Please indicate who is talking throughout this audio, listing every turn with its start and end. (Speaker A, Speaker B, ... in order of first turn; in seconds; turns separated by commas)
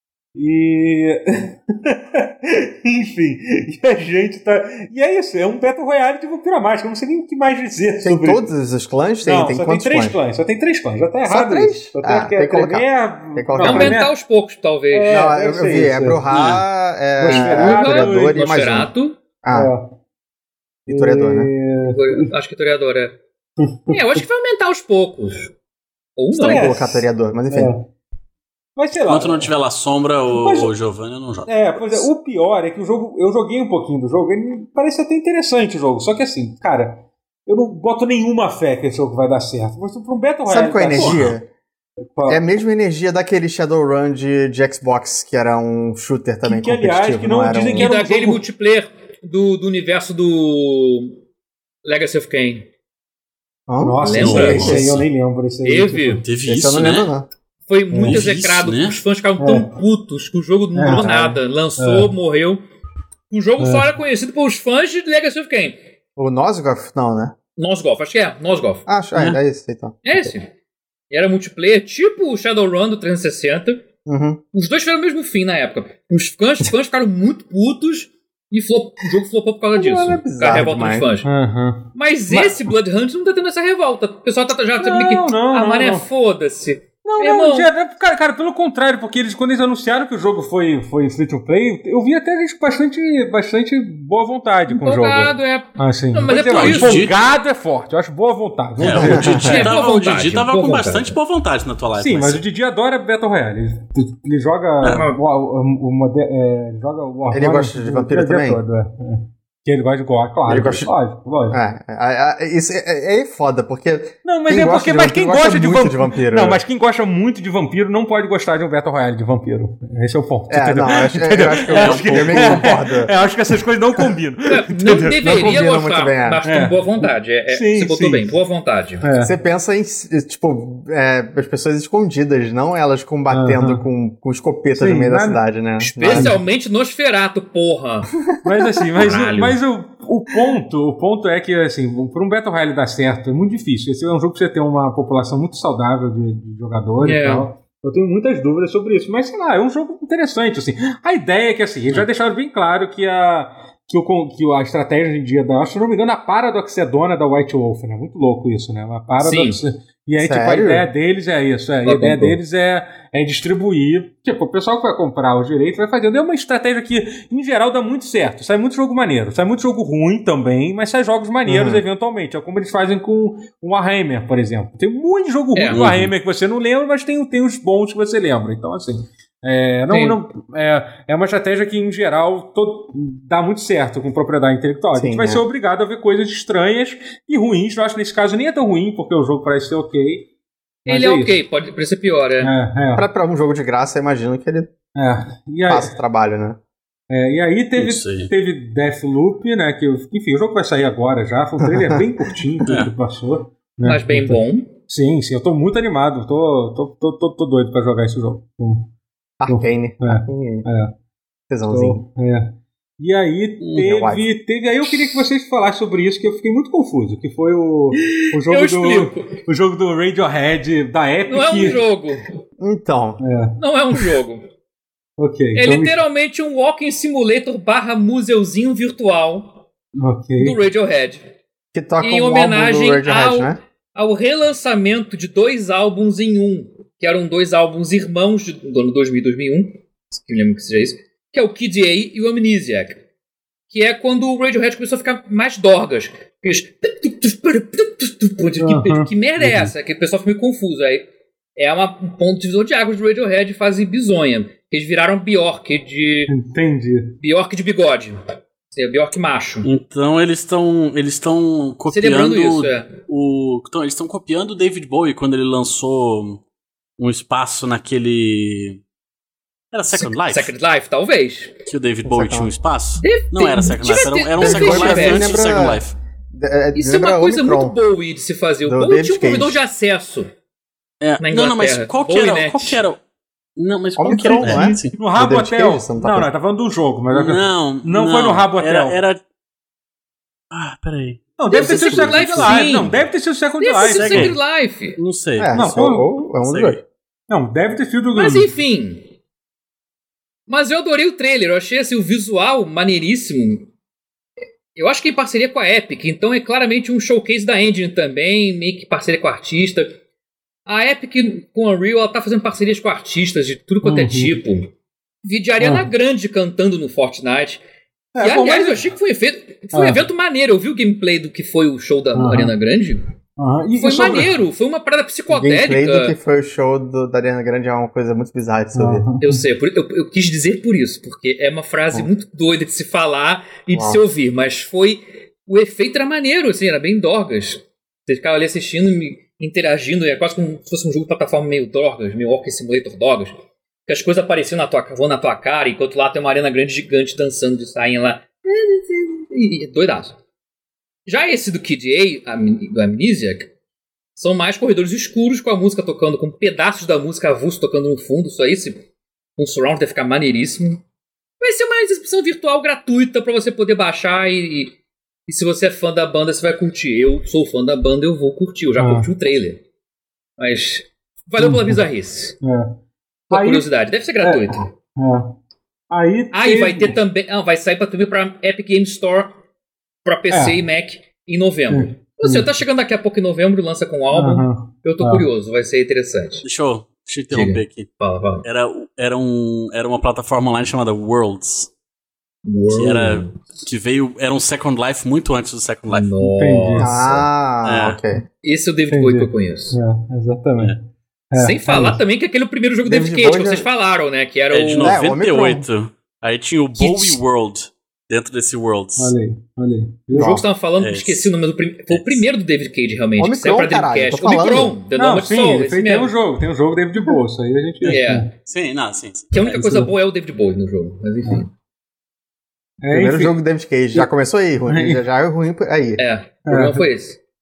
Speaker A: 0.3-8.5, Speaker B: 8.0-10.2, Speaker A: 9.2-14.2, Speaker B: 11.3-14.0, Speaker C: 13.6-15.3, Speaker A: 14.9-16.6, Speaker B: 15.1-18.9, Speaker D: 16.3-16.6, Speaker A: 17.2-18.6, Speaker C: 17.3-19.2, Speaker B: 19.4-19.7, Speaker A: 19.5-19.9, Speaker B: 20.9-21.5, Speaker A: 20.9-22.3, Speaker C: 21.9-23.2, Speaker A: 23.6-24.2, Speaker C: 23.9-25.5, Speaker C: 26.2-26.8, Speaker B: 26.3-27.7, Speaker A: 26.4-27.9, Speaker A: 28.8-29.5, Speaker D: 29.1-32.1, Speaker A: 30.3-30.7, Speaker A: 31.5-41.3, Speaker B: 40.5-41.5, Speaker D: 41.0-41.4, Speaker A: 42.1-42.4, Speaker B: 42.3-47.9, Speaker A: 46.5-48.4, Speaker C: 47.8-51.2, Speaker C: 51.8-52.7, Speaker B: 53.7-55.0, Speaker A: 53.8-56.2, Speaker C: 54.0-54.9, Speaker D: 54.1-55.0, Speaker C: 55.6-56.2, Speaker D: 56.2-57.1, Speaker B: 56.5-57.3, Speaker C: 57.7-62.6, Speaker A: 57.9-58.2, Speaker D: 58.0-59.0, Speaker A: 59.4-59.7, Speaker A: 60.8-61.2, Speaker B: 60.8-61.4, Speaker A: 61.8-62.1, Speaker C: 63.3-65.8, Speaker A: 63.6-63.9, Speaker B: 66.2-67.3, Speaker C: 67.6-68.9, Speaker B: 68.9-70.3, Speaker D: 69.2-69.4, Speaker C: 70.0-70.5, Speaker C: 71.1-73.8, Speaker B: 74.1-74.4, Speaker C: 74.5-81.3, Speaker B: 79.8-81.1, Speaker A: 81.2-82.6, Speaker C: 82.0-87.7, Speaker A: 84.8-86.0, Speaker A: 87.0-99.8, Speaker C: 94.7-97.1, Speaker D: 96.3-97.2, Speaker D: 98.8-102.4, Speaker B: 98.9-99.7, Speaker C: 99.3-101.2, Speaker A: 102.0-111.6, Speaker C: 104.9-105.2, Speaker B: 107.3-108.6, Speaker B: 110.5-110.9, Speaker B: 111.5-116.6, Speaker A: 114.2-125.6, Speaker B: 120.5-123.1, Speaker D: 121.7-122.6, Speaker C: 124.5-129.1, Speaker B: 125.2-126.4, Speaker A: 126.4-128.3, Speaker A: 129.0-129.3, Speaker B: 129.2-136.4, Speaker A: 133.3-133.8, Speaker A: 134.7-135.4, Speaker C: 135.8-138.1, Speaker A: 136.1-136.4, Speaker A: 138.4-190.3, Speaker C: 139.0-139.6, Speaker C: 147.0-147.5, Speaker C: 159.2-159.6, Speaker B: 160.2-160.9, Speaker C: 161.8-162.4, Speaker B: 171.4-171.8, Speaker C: 175.5-175.8, Speaker D: 175.7-176.1, Speaker C: 179.9-180.2, Speaker B: 184.9-185.5, Speaker A: 190.8-191.4, Speaker C: 190.9-192.5, Speaker A: 192.4-193.1, Speaker B: 192.9-194.7, Speaker A: 194.9-195.9, Speaker B: 195.7-196.6, Speaker A: 197.1-208.9, Speaker D: 197.8-198.3, Speaker B: 201.6-202.0, Speaker D: 202.7-202.9, Speaker C: 203.8-204.7, Speaker B: 209.4-210.7, Speaker A: 209.5-210.9, Speaker B: 211.5-212.0, Speaker A: 211.7-221.8, Speaker B: 213.7-214.2, Speaker C: 218.0-219.4, Speaker C: 221.3-222.3, Speaker B: 222.6-223.2, Speaker A: 223.2-224.0, Speaker C: 223.6-224.4, Speaker A: 225.2-226.0, Speaker C: 225.6-229.6, Speaker A: 230.0-230.6, Speaker C: 230.4-231.2, Speaker B: 231.7-233.6, Speaker C: 232.0-243.0, Speaker C: 243.7-256.3, Speaker A: 248.6-249.7, Speaker A: 256.3-257.2, Speaker C: 257.2-259.7, Speaker D: 259.6-266.4, Speaker C: 261.9-262.9, Speaker D: 267.0-268.8, Speaker D: 269.7-270.5, Speaker C: 269.9-271.6, Speaker D: 271.7-275.9, Speaker B: 272.1-272.5, Speaker C: 273.0-275.4, Speaker B: 274.4-277.8, Speaker C: 276.8-280.3, Speaker B: 278.6-279.6, Speaker D: 281.0-283.0, Speaker C: 281.2-282.8, Speaker D: 283.6-285.0, Speaker B: 284.0-286.3, Speaker A: 284.3-289.0, Speaker D: 287.1-289.2, Speaker D: 290.5-292.8, Speaker A: 291.4-294.4, Speaker C: 291.5-292.9, Speaker C: 293.6-295.0, Speaker D: 293.9-294.4, Speaker D: 295.0-295.8, Speaker B: 295.4-296.8, Speaker A: 295.5-296.1, Speaker D: 296.4-296.8, Speaker A: 297.3-298.5, Speaker C: 298.1-299.1, Speaker C: 300.5-303.7, Speaker C: 304.8-309.9, Speaker C: 310.7-314.7, Speaker A: 313.8-314.4, Speaker C: 315.2-317.6, Speaker A: 315.6-315.9, Speaker A: 318.1-318.8, Speaker C: 318.2-323.1, Speaker A: 319.7-320.0, Speaker A: 322.1-322.6, Speaker A: 323.4-324.4, Speaker C: 323.8-326.1, Speaker B: 325.3-329.1, Speaker A: 328.8-329.4, Speaker C: 329.2-343.4, Speaker B: 333.7-334.0, Speaker C: 343.9-350.2, Speaker C: 351.1-353.5, Speaker C: 354.1-360.8, Speaker C: 361.4-364.8, Speaker C: 365.3-369.6, Speaker A: 368.8-369.1, Speaker C: 370.4-372.4, Speaker A: 371.4-371.8, Speaker A: 372.4-372.8, Speaker C: 373.3-374.7, Speaker A: 373.3-373.7, Speaker A: 374.2-375.4, Speaker A: 375.9-377.0, Speaker C: 376.3-379.3, Speaker C: 380.1-386.4, Speaker A: 380.3-380.6, Speaker A: 381.7-382.5, Speaker A: 384.1-385.3, Speaker D: 386.4-387.9, Speaker C: 387.3-388.5, Speaker D: 388.4-391.7, Speaker C: 392.4-393.4, Speaker D: 392.7-396.1, Speaker C: 395.9-396.9, Speaker A: 396.2-397.2, Speaker B: 396.8-398.3, Speaker D: 397.6-398.0, Speaker C: 398.4-399.8, Speaker A: 398.9-402.0, Speaker C: 401.4-405.0, Speaker B: 402.9-403.7, Speaker D: 404.5-409.1, Speaker B: 404.8-405.7, Speaker C: 406.8-407.2, Speaker A: 409.0-410.4, Speaker C: 410.1-416.1, Speaker D: 410.8-411.3, Speaker D: 411.9-412.2, Speaker B: 413.2-414.8, Speaker A: 414.9-418.3, Speaker D: 417.8-419.8, Speaker C: 417.9-418.3, Speaker C: 419.3-421.5, Speaker A: 419.6-419.9, Speaker A: 422.8-423.4, Speaker B: 422.9-426.0, Speaker A: 424.7-425.0, Speaker C: 426.0-427.2, Speaker A: 426.5-426.9